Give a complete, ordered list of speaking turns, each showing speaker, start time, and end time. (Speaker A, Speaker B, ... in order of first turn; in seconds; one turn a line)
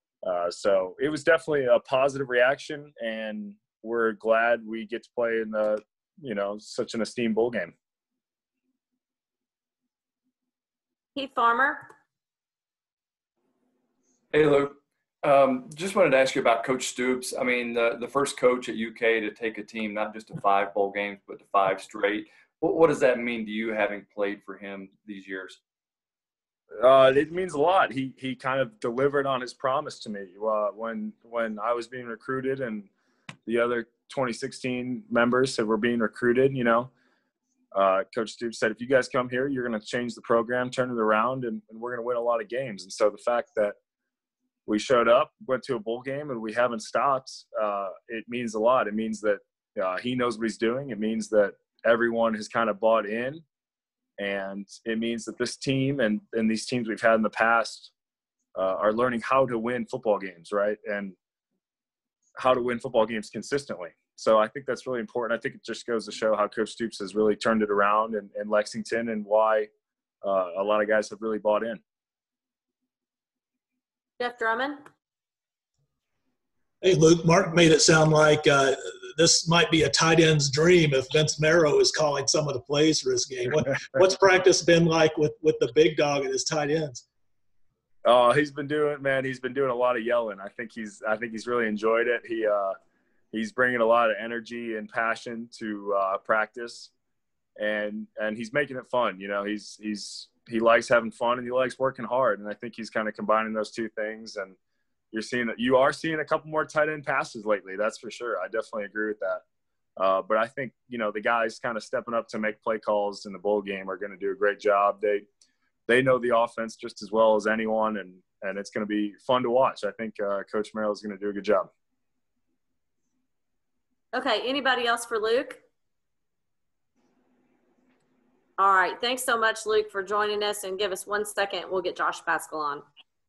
Speaker A: 0.2-7.7
Speaker B: 11.2-11.9
Speaker C: 14.3-25.6
Speaker A: 26.8-32.9
Speaker A: 33.5-36.9
Speaker A: 37.7-43.8
Speaker A: 44.7-53.4
Speaker A: 54.2-57.9
Speaker A: 58.5-61.2
Speaker A: 62.4-69.7
Speaker A: 70.2-71.8
Speaker B: 74.2-74.8
Speaker D: 76.8-87.0
Speaker A: 88.0-92.8
Speaker A: 93.3-96.9
Speaker A: 97.6-104.6
Speaker A: 105.1-109.4
Speaker A: 110.0-115.3
Speaker A: 115.9-121.7
Speaker B: 124.1-125.6
Speaker B: 128.6-132.8